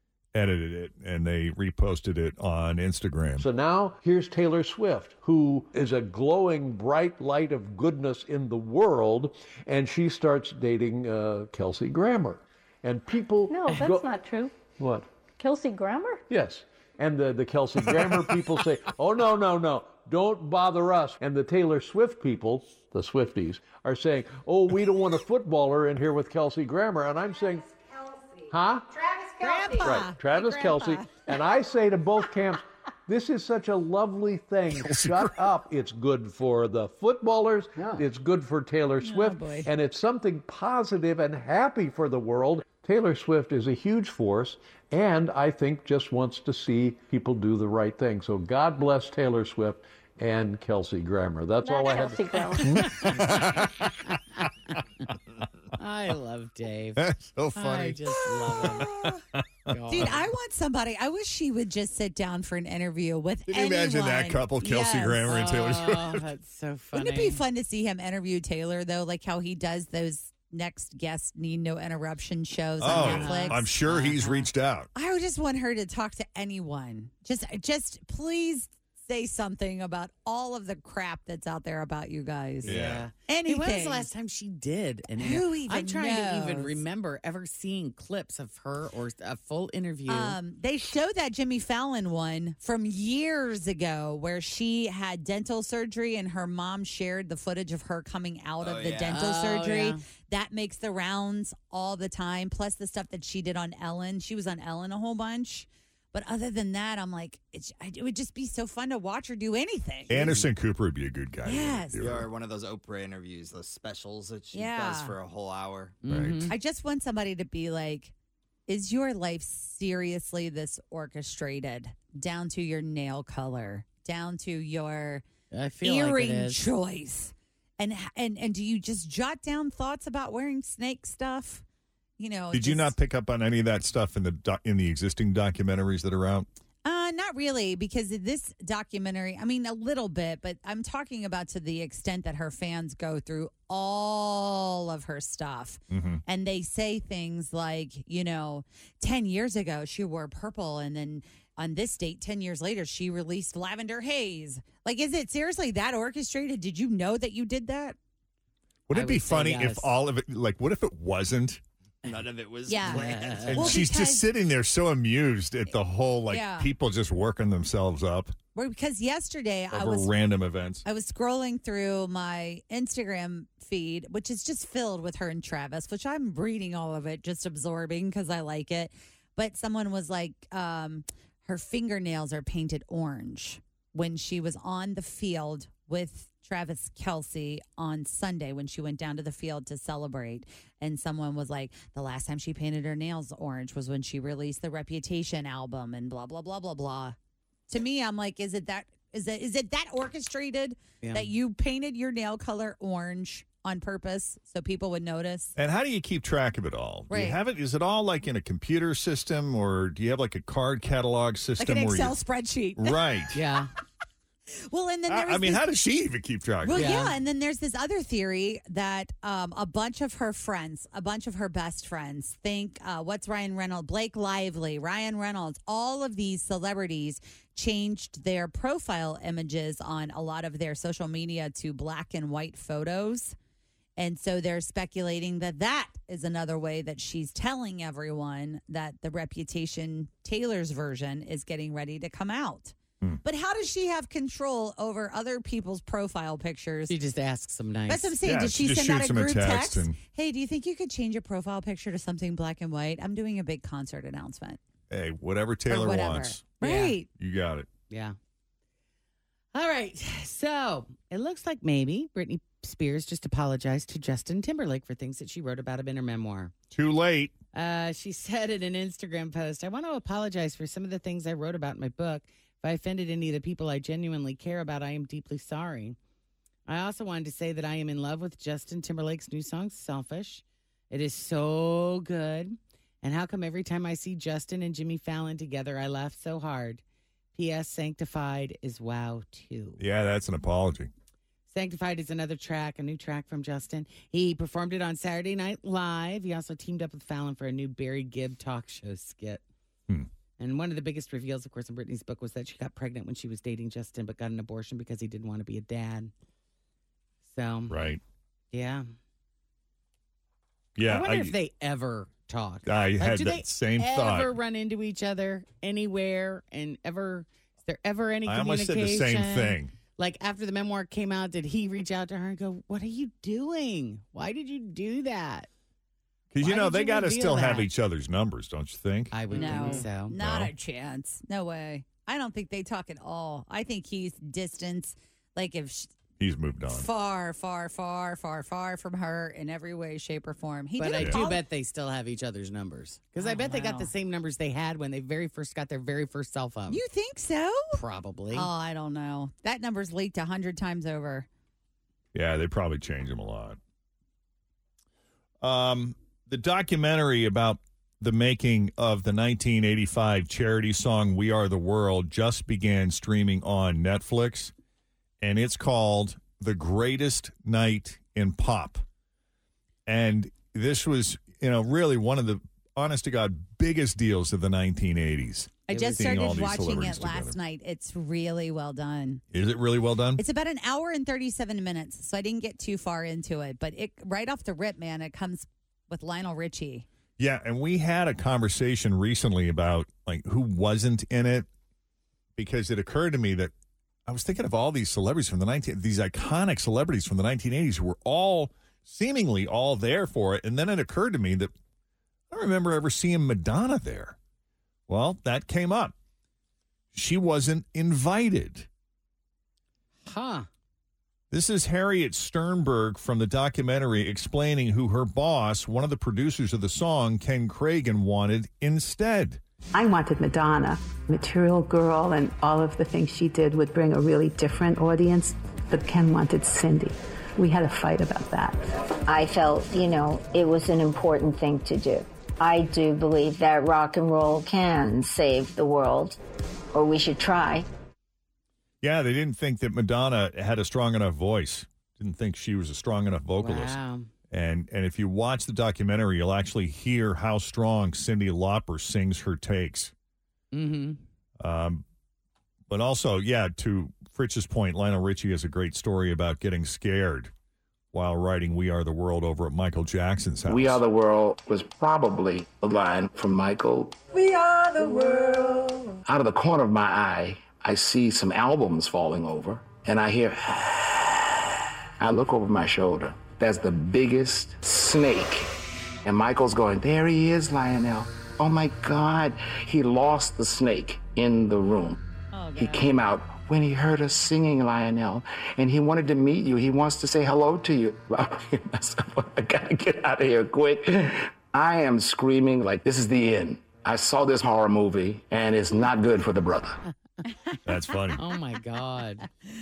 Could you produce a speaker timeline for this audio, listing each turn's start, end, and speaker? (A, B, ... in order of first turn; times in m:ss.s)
0:00.3-0:03.5 A
0:03.4-0:14.1 B
0:13.5-0:14.6 C
0:14.8-0:15.1 B
0:15.4-0:16.2 C
0:16.3-0:27.7 B
0:28.5-0:29.0 B
0:29.1-0:31.2 D
0:29.6-0:53.0 B
0:34.7-0:35.5 A
0:39.0-0:39.7 D
0:51.6-0:52.9 C
0:53.1-0:54.5 E
0:53.2-0:53.7 A
0:55.8-0:57.0 E
0:57.0-1:00.1 A
0:57.5-0:59.1 E
0:59.7-1:00.3 E
0:59.9-1:05.4 D
1:03.5-1:06.2 A
1:05.2-1:07.4 E
1:06.9-1:13.6 D
1:12.8-1:14.9 A
1:12.8-1:14.4 E
1:14.9-1:24.1 D
1:22.6-1:30.4 E
1:22.6-1:23.0 F
1:22.7-1:23.0 A
1:25.1-1:26.8 D
1:30.1-1:50.4 D
1:38.6-1:39.2 F
1:39.1-1:40.0 E
1:50.1-1:52.3 A
1:51.4-1:52.0 D
1:52.0-1:56.0 F
1:54.5-1:55.2 D
1:56.0-1:56.6 E
1:56.1-1:56.5 A
1:56.5-1:58.1 D
1:58.7-2:05.2 D
2:05.5-2:06.6 E
2:05.8-2:11.6 D
2:12.2-2:12.9 D
2:12.5-2:16.5 A
2:16.8-2:38.0 D
2:25.9-2:26.2 A
2:38.9-2:41.6 A
2:38.9-2:39.9 E
2:42.0-2:43.8 F
2:42.7-2:44.2 D
2:42.8-2:43.8 E
2:43.5-2:48.4 A
2:46.3-2:46.7 D
2:48.5-2:50.1 D
2:49.7-2:50.8 A
2:50.8-3:17.2 D
3:17.7-3:25.5 D
3:21.0-3:21.3 E
3:25.5-3:32.2 A
3:27.1-3:27.4 D
3:31.6-3:33.0 D
3:32.8-3:33.4 A
3:33.3-3:33.7 E
3:34.5-3:35.6 D
3:35.1-3:37.0 A
3:36.6-3:53.3 D
3:36.7-3:37.2 E
3:54.0-4:06.9 D
4:06.9-4:08.2 E
4:07.9-4:14.6 D
4:08.2-4:10.0 A
4:14.9-4:16.6 A
4:15.7-4:17.1 D
4:16.6-4:17.0 E
4:17.1-4:17.7 A
4:17.9-4:18.2 E
4:19.5-4:26.5 E
4:26.7-4:27.3 A
4:27.5-4:36.0 E
4:36.7-4:46.8 E
4:47.3-4:49.8 E
4:49.8-4:50.9 A
4:51.5-4:59.4 E
5:00.4-5:06.1 E
5:07.3-5:07.7 E
5:07.7-5:08.0 A
5:08.5-5:08.8 E
5:10.8-5:11.4 A
5:10.8-5:25.5 E
5:12.6-5:14.3 A
5:18.2-5:19.7 A
5:26.3-5:30.5 A
5:26.4-5:27.7 E
5:29.1-5:30.2 E
5:29.3-5:35.9 D
5:36.2-5:36.9 A
5:36.7-5:41.4 D
5:40.8-5:46.8 E
5:43.2-5:43.9 D
5:46.7-5:51.3 D
5:47.7-5:48.5 E
5:52.1-5:53.6 A
5:55.4-6:04.5 A
6:05.2-6:08.8 A
6:09.8-6:17.4 A
6:15.7-6:19.2 D
6:15.7-6:16.1 E
6:19.3-6:20.2 A
6:20.2-6:26.8 D
6:27.2-6:31.5 A
6:32.4-6:33.5 A
6:34.0-6:41.5 A
6:42.3-6:44.2 A
6:44.9-6:45.9 A
6:46.9-6:48.7 A
6:50.0-6:50.5 E
6:51.3-6:59.4 A
6:59.7-7:08.6 G
7:09.1-7:16.2 H
7:16.7-7:17.6 H
7:18.8-7:23.8 A
7:23.4-7:24.1 E
7:24.3-7:29.9 A
7:30.5-7:31.0 E
7:31.4-7:31.8 A
7:32.7-7:37.3 A
7:37.9-7:40.8 A
7:40.5-7:44.0 I
7:44.1-7:45.9 G
7:46.0-7:51.2 I
7:52.0-7:55.5 I
7:56.0-8:02.0 I
8:02.3-8:02.8 D
8:02.6-8:16.8 I
8:17.6-8:18.2 A
8:18.2-8:19.3 E